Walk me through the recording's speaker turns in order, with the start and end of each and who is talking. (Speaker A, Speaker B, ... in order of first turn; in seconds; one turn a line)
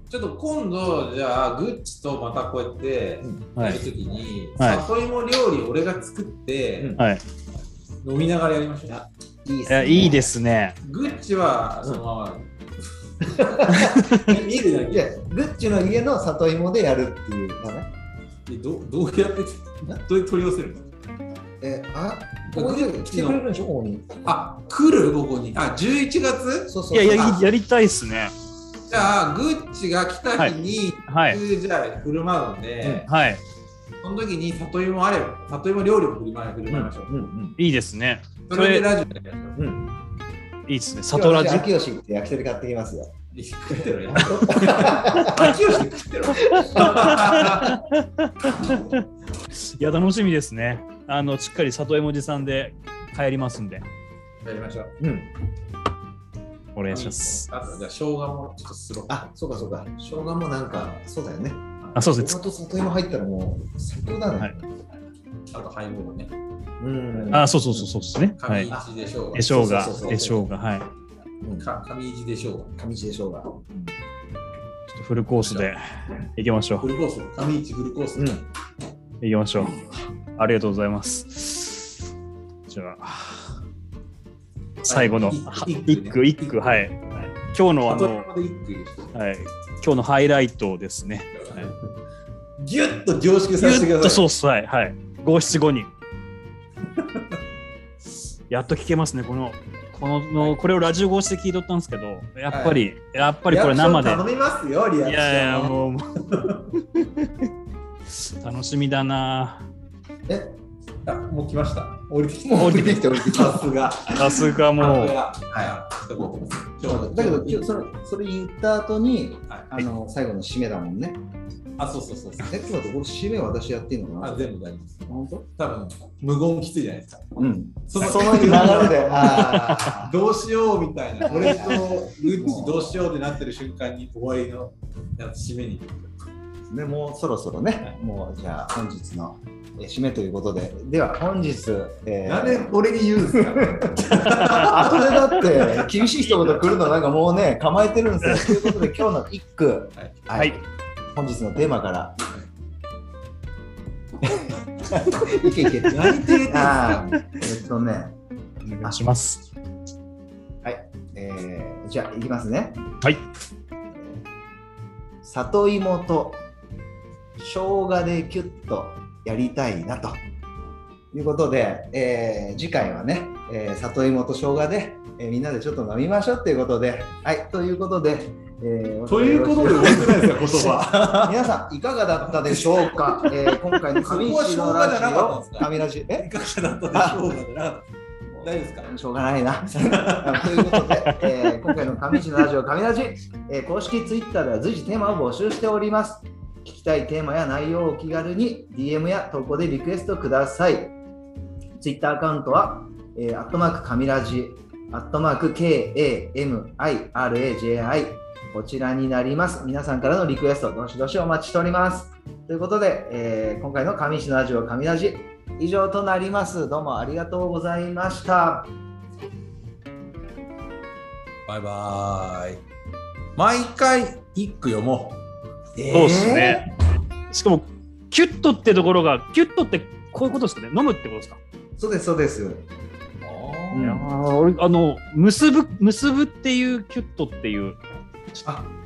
Speaker A: 0.1-7.0
Speaker B: 3.6-3.8
Speaker C: 6.8-7.0
Speaker A: 8.0-9.1
Speaker C: 8.9-10.3
Speaker B: 9.7-10.8
Speaker A: 10.8-12.5
Speaker A: 13.2-15.2
Speaker C: 13.2-17.9
Speaker B: 13.7-14.3
Speaker A: 18.5-20.9
Speaker C: 21.6-24.3
Speaker A: 22.5-23.4
Speaker A: 24.2-27.4
Speaker C: 26.7-27.5
Speaker B: 26.9-28.3
Speaker A: 28.9-33.1
Speaker B: 31.1-31.4
Speaker C: 32.8-33.1
Speaker B: 33.1-33.4
Speaker A: 34.0-37.3
Speaker C: 36.7-37.6
Speaker B: 37.6-38.9
Speaker A: 38.5-39.6
Speaker C: 39.6-39.9
Speaker B: 40.7-41.7
Speaker C: 41.1-43.2
Speaker A: 43.3-47.8
Speaker C: 44.1-45.5
Speaker B: 46.5-53.9
Speaker C: 46.5-46.9
Speaker A: 54.4-55.0
Speaker C: 55.0-55.3
Speaker B: 56.8-57.5
Speaker A: 56.9-59.3
Speaker C: 59.1-64.8
Speaker B: 62.0-62.4
Speaker A: 65.5-66.3
Speaker C: 66.8-67.9
Speaker B: 67.3-68.7
Speaker A: 68.4-70.5
Speaker C: 68.7-70.5
Speaker B: 69.3-70.9
Speaker C: 71.4-71.7
Speaker A: 71.6-72.7
Speaker C: 72.8-73.9
Speaker B: 74.9-76.9
Speaker A: 75.4-75.7
Speaker A: 76.8-78.5
Speaker C: 78.2-78.4
Speaker B: 79.2-82.0
Speaker B: 82.7-83.6
Speaker B: 84.8-88.3
Speaker A: 84.9-87.0
Speaker A: 87.9-89.2
Speaker B: 89.1-91.7
Speaker A: 91.3-91.8
Speaker A: 92.6-94.3
Speaker B: 93.6-95.9
Speaker B: 98.5-104.2
Speaker A: 102.5-102.9
Speaker A: 103.5-106.7
Speaker B: 105.0-107.5
Speaker B: 108.1-109.7
Speaker C: 110.3-110.6
Speaker A: 111.0-117.9
Speaker C: 112.5-113.7
Speaker B: 112.6-113.1
Speaker B: 114.1-115.2
Speaker C: 116.8-121.2
Speaker A: 121.8-122.6
Speaker C: 122.4-124.5
Speaker A: 124.2-136.2
Speaker C: 125.1-125.5
Speaker C: 127.4-130.2
Speaker B: 129.3-129.7
Speaker C: 131.2-133.1
Speaker C: 136.7-142.7
Speaker A: 142.2-146.7
Speaker C: 143.3-150.6
Speaker B: 144.3-144.8
Speaker B: 148.2-148.9
Speaker C: 151.1-152.2
Speaker C: 154.2-158.2
Speaker A: 155.9-157.2
Speaker B: 158.6-159.4
Speaker C: 160.6-162.9
Speaker C: 163.9-164.2
Speaker C: 165.2-166.4
Speaker C: 167.4-170.2
Speaker C: 171.1-186.3
Speaker A: 179.1-181.5
Speaker A: 182.4-187.9
Speaker C: 186.9-187.3
Speaker C: 188.3-200.9
Speaker A: 188.4-188.9
Speaker A: 189.7-190.8
Speaker B: 191.1-191.7
Speaker C: 201.8-218.7
Speaker A: 221.5-222.6
Speaker A: 223.4-225.2
Speaker A: 225.8-226.5
Speaker C: 225.8-226.6
Speaker B: 225.9-226.7
Speaker B: 227.3-231.4
Speaker C: 231.8-232.6
Speaker A: 233.2-233.9
Speaker C: 233.7-234.1
Speaker B: 233.8-237.8
Speaker C: 238.4-238.7